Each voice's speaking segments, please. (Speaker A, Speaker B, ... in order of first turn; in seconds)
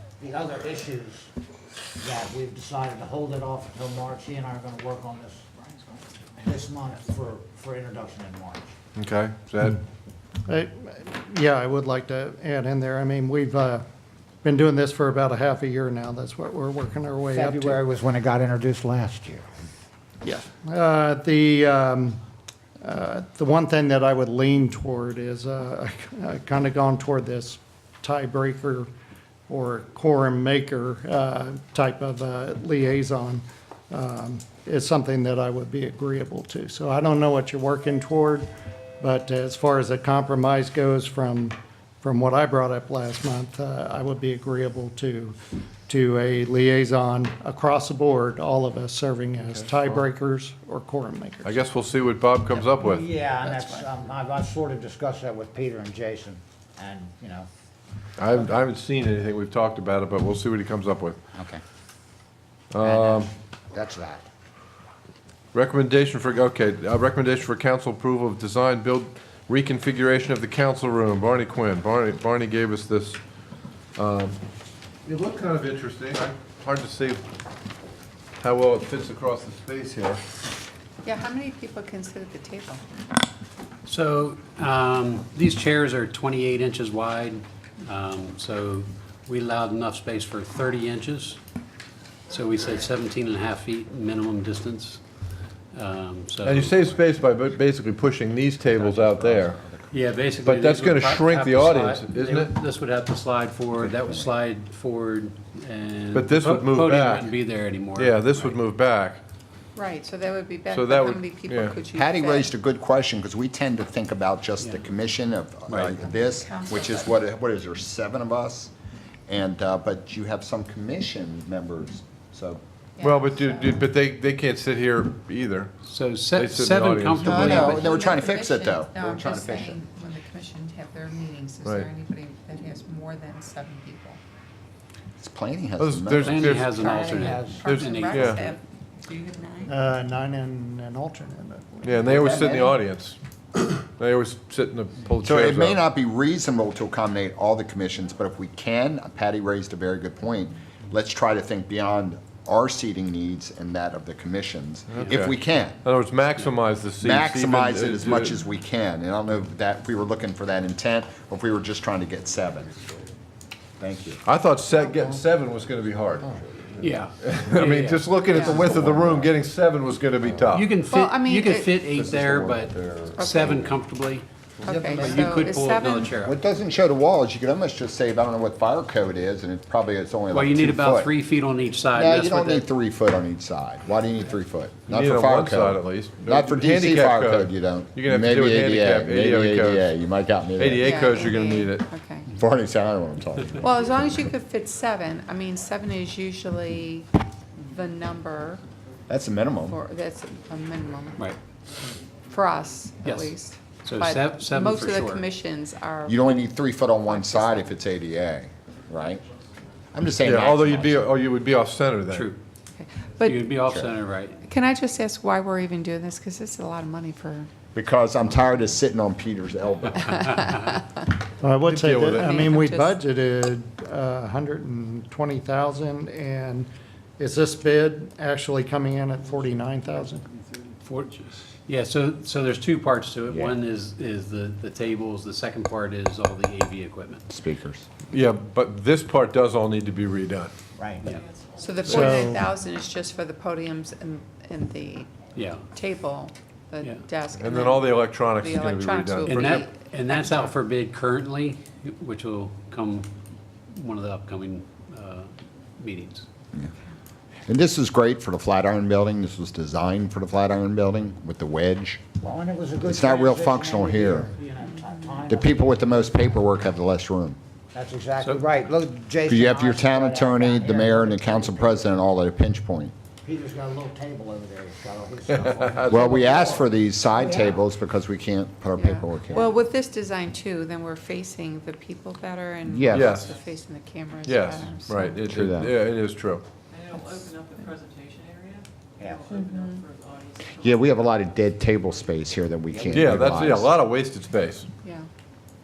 Speaker A: 0.2-1.3, 2.0-8.7, 17.3-19.4, 52.5-57.5, 62.8-64.2, 136.7-137.7, 240.8-241.1, 262.2-266.3, 267.7-271.9, 273.2-277.6, 289.0-289.4, 292.7-293.5
Speaker B: 8.9-9.8, 49.4-50.0, 51.4-53.1, 58.2-61.2, 62.7-63.3, 65.5-73.2, 74.0-74.3, 75.0-77.2, 78.4-80.2, 96.4-99.6, 100.4-102.6, 106.1-107.3, 107.9-109.2, 110.7-111.8, 123.0-125.7, 126.3-127.8, 135.8-138.4, 141.8-143.2, 143.8-145.8, 154.9-155.3, 155.8-158.3, 164.2-170.8, 171.9-173.7, 184.9-189.9, 190.6-191.9, 210.2-212.3, 221.7-222.4, 238.1-240.5, 247.3-249.6, 275.3-276.0, 282.9-283.3, 284.2-286.4, 292.9-294.7
Speaker C: 10.5-13.8, 14.4-17.8, 20.2-22.2, 22.8-28.9, 29.5-38.5, 39.0-45.4, 45.9-51.6, 139.7-142.1, 221.4-230.2, 241.9-242.4
Speaker D: 53.4-53.8, 81.0-82.8, 109.7-112.5, 116.0-117.2, 123.0-123.8, 127.8-134.2, 137.6-139.8, 164.7-165.2, 168.3-168.6, 170.9-171.9, 173.1-173.7, 174.7-176.2, 190.8-192.3, 193.6-198.6, 199.7-201.3, 202.2-206.5, 207.0-207.8, 212.8-213.6, 214.4-217.5, 220.2-221.1, 222.2-223.0, 241.6-245.1, 245.7-250.5, 278.7-285.2, 289.3-289.8, 294.8-295.1
Speaker E: 61.3-61.6, 98.7-99.9, 103.9-104.3, 111.9-118.7, 119.3-122.6, 127.2-129.8, 135.2-136.5, 142.0-142.8, 145.2-155.8, 157.0-162.9, 163.8-164.2, 168.5-169.3, 176.2-181.1, 181.9-191.3, 192.3-194.0, 199.1-199.8, 206.1-209.2, 209.9-211.1, 217.7-220.2, 233.3-233.5, 237.3-237.8, 257.5-262.0, 262.8-264.3, 265.3-267.4, 269.2-272.9, 275.9-279.5, 282.7-283.2, 285.3-285.7, 290.6-293.7
Speaker F: 83.8-91.4, 92.3-95.0, 95.7-96.9, 99.9-108.5, 114.6-114.8, 115.7-115.9, 125.8-127.9, 136.2-138.6, 166.8-168.5, 170.5-176.3, 180.3-182.7, 203.0-205.2, 212.1-212.4, 213.2-214.4, 230.8-237.2, 245.3-245.7, 249.2-253.1, 253.7-256.3
Speaker G: 241.1-242.1, 286.7-291.1